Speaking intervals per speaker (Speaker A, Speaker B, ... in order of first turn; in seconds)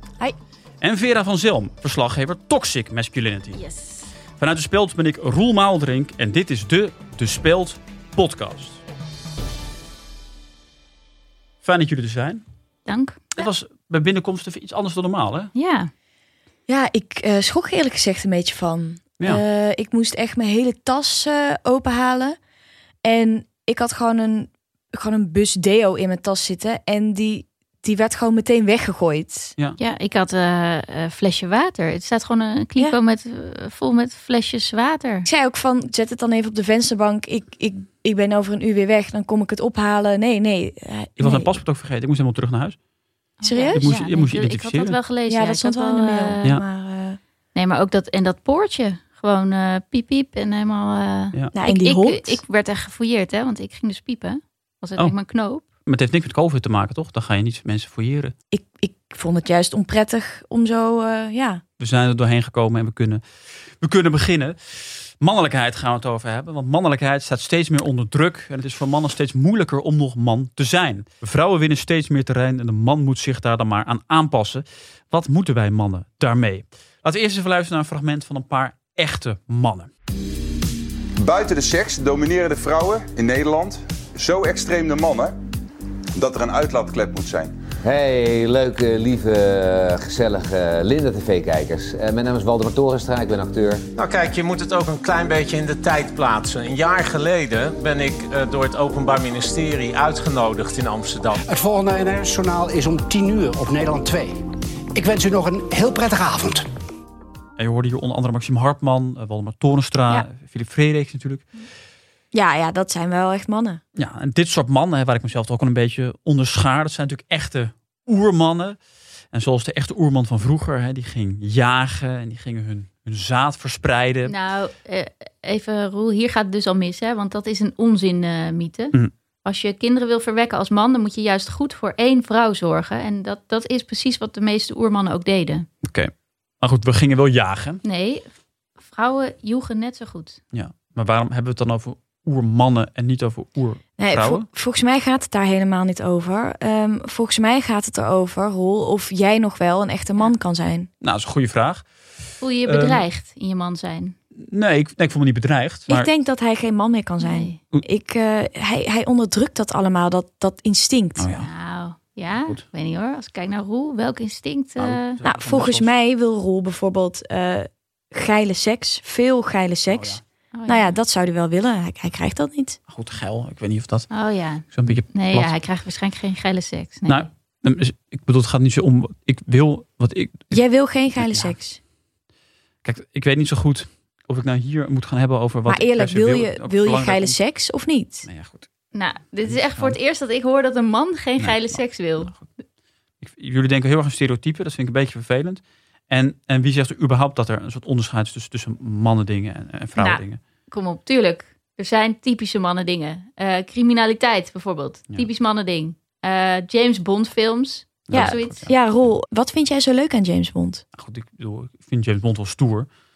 Speaker A: 0.8-3.6, 4.4-8.8, 11.6-12.4, 13.3-15.5, 41.2-42.8, 43.7-45.0, 55.9-58.4, 61.8-63.2, 63.8-79.9, 107.6-111.5, 114.0-118.8, 119.3-124.3, 135.8-137.8, 140.5-144.5, 151.0-151.8, 152.6-153.1, 154.3-156.1, 161.2-161.5, 164.8-165.9, 169.9-170.2, 172.9-174.1, 174.6-175.5, 177.1-181.6, 182.8-187.4, 188.2-188.7, 189.4-190.0, 191.4-192.5, 193.2-200.4, 208.1-209.1, 210.9-212.9
Speaker B: 3.5-4.1, 12.9-13.5, 15.5-15.9, 29.8-35.3, 43.4-46.5, 47.5-55.7, 124.3-135.7, 137.8-138.3, 138.8-140.4, 152.4-154.2, 157.2-157.6, 161.3-165.2, 170.5-170.9, 174.1-177.3, 188.9-192.4, 200.0-208.6
Speaker C: 16.7-22.4, 23.0-29.5, 35.3-41.6, 43.4-43.9, 45.3-47.2, 51.5-52.4, 58.5-61.6, 112.3-113.8, 144.0-150.9, 155.9-161.3, 165.2-172.8, 180.5-181.8, 185.7-188.3, 208.1-210.8
Speaker D: 81.2-85.4, 86.2-87.6
Speaker E: 87.9-93.8
Speaker F: 94.0-101.4
Speaker G: 101.4-104.4, 104.9-106.6